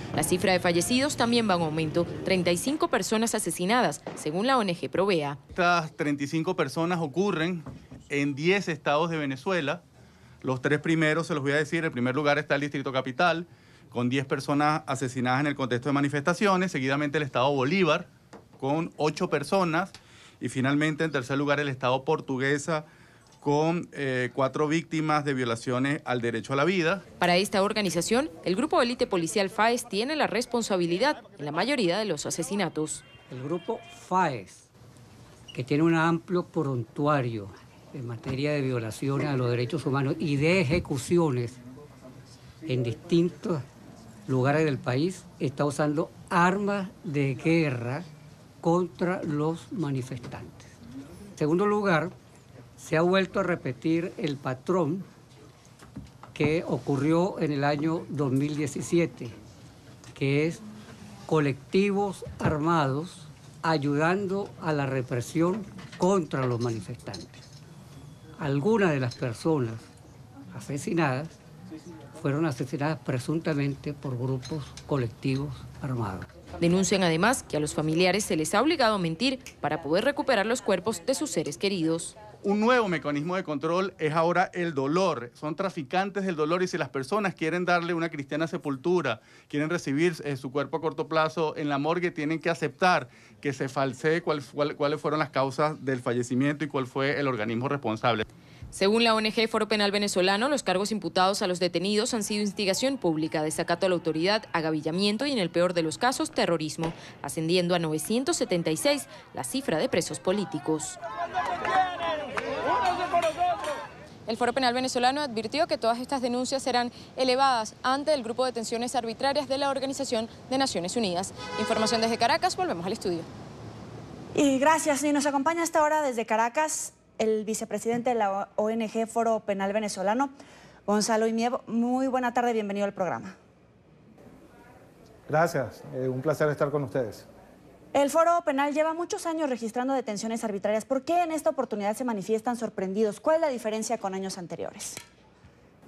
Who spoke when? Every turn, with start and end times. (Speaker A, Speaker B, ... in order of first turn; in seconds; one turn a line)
Speaker A: 0.1-5.4
Speaker B: 5.5-9.8
Speaker B: 10.4-18.1
Speaker B: 18.6-22.9
Speaker B: 23.4-27.0
Speaker A: 27.2-33.0
Speaker C: 33.3-34.7
Speaker C: 35.5-41.6
Speaker C: 42.6-43.6
Speaker C: 44.3-48.1
Speaker C: 48.6-50.7
Speaker C: 51.4-52.1
Speaker C: 52.8-55.1
Speaker C: 56.4-59.3
Speaker C: 60.1-60.6
Speaker C: 61.3-67.5
Speaker C: 68.4-69.9
Speaker C: 70.5-71.4
Speaker C: 72.2-76.3
Speaker A: 76.6-82.2
Speaker B: 82.4-98.2
Speaker A: 98.7-111.0
Speaker A: 114.3-123.3
Speaker D: 124.3-130.3
Speaker D: 130.9-133.4
Speaker E: 135.3-137.3
Speaker D: 137.9-145.0